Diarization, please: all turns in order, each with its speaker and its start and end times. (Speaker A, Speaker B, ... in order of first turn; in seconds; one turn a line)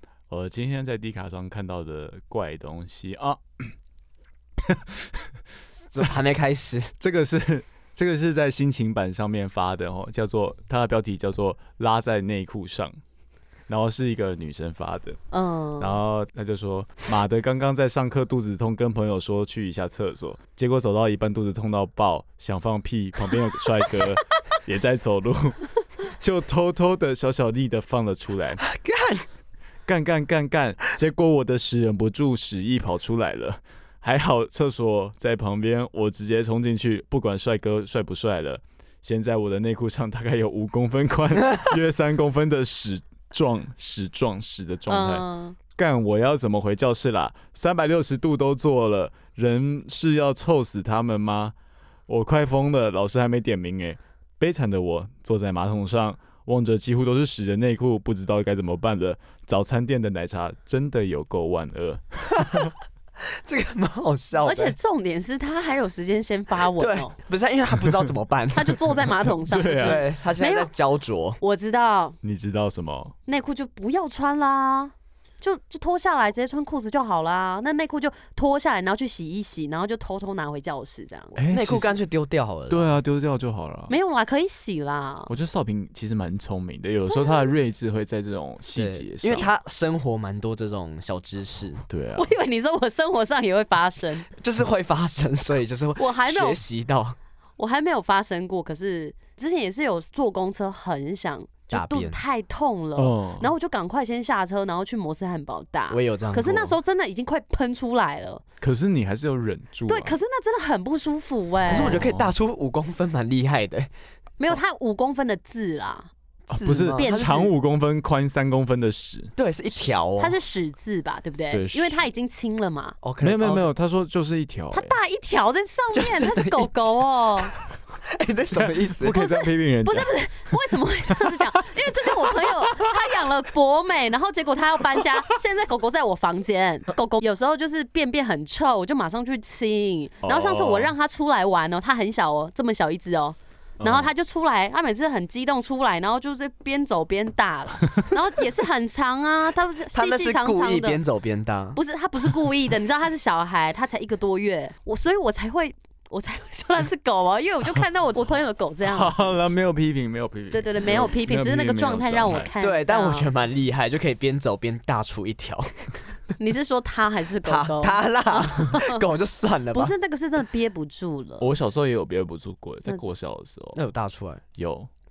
Speaker A: 0.3-3.7
Speaker A: 4.6-5.3
Speaker B: 5.7-6.9
Speaker A: 7.0-12.9
Speaker A: 13.7-15.2
Speaker C: 15.3-16.0
Speaker A: 15.8-28.6
Speaker B: 28.6-29.2
Speaker A: 29.9-51.5
Speaker C: 44.9-45.6
Speaker A: 52.1-62.7
Speaker B: 62.3-62.7
Speaker B: 63.3-64.8
Speaker C: 64.4-67.1
Speaker B: 66.8-68.8
Speaker C: 68.5-70.7
Speaker A: 69.4-70.0
Speaker B: 69.8-71.4
Speaker C: 71.4-72.2
Speaker A: 72.2-73.1
Speaker C: 73.3-81.4
Speaker A: 81.3-82.0
Speaker B: 81.5-82.9
Speaker A: 82.7-83.9
Speaker C: 83.9-85.3
Speaker A: 85.3-89.5
Speaker B: 88.7-91.8
Speaker A: 91.9-92.3
Speaker C: 92.2-94.3
Speaker B: 94.3-97.2
Speaker C: 96.0-96.6
Speaker C: 97.6-108.4
Speaker B: 101.7-102.2
Speaker A: 103.0-103.5
Speaker B: 105.9-106.8
Speaker A: 108.6-110.1
Speaker C: 109.9-112.0
Speaker B: 111.7-113.9
Speaker A: 111.7-112.3
Speaker C: 114.4-116.1
Speaker B: 116.5-117.5
Speaker A: 116.5-119.3
Speaker C: 116.9-117.5
Speaker B: 119.3-120.3
Speaker C: 120.2-123.0
Speaker A: 121.5-122.0
Speaker B: 123.0-123.7
Speaker A: 123.2-125.0
Speaker C: 124.7-127.5
Speaker B: 125.9-126.7
Speaker B: 128.0-129.2
Speaker A: 128.5-130.1
Speaker C: 129.1-151.0
Speaker A: 140.2-140.9
Speaker A: 143.8-144.1
Speaker B: 149.9-151.8
Speaker C: 151.8-159.3
Speaker A: 158.8-162.5
Speaker C: 160.5-163.3
Speaker B: 162.6-165.9
Speaker C: 166.4-169.0
Speaker B: 167.4-169.9
Speaker C: 169.7-171.5
Speaker A: 171.4-173.8
Speaker B: 173.7-174.4
Speaker A: 174.6-174.9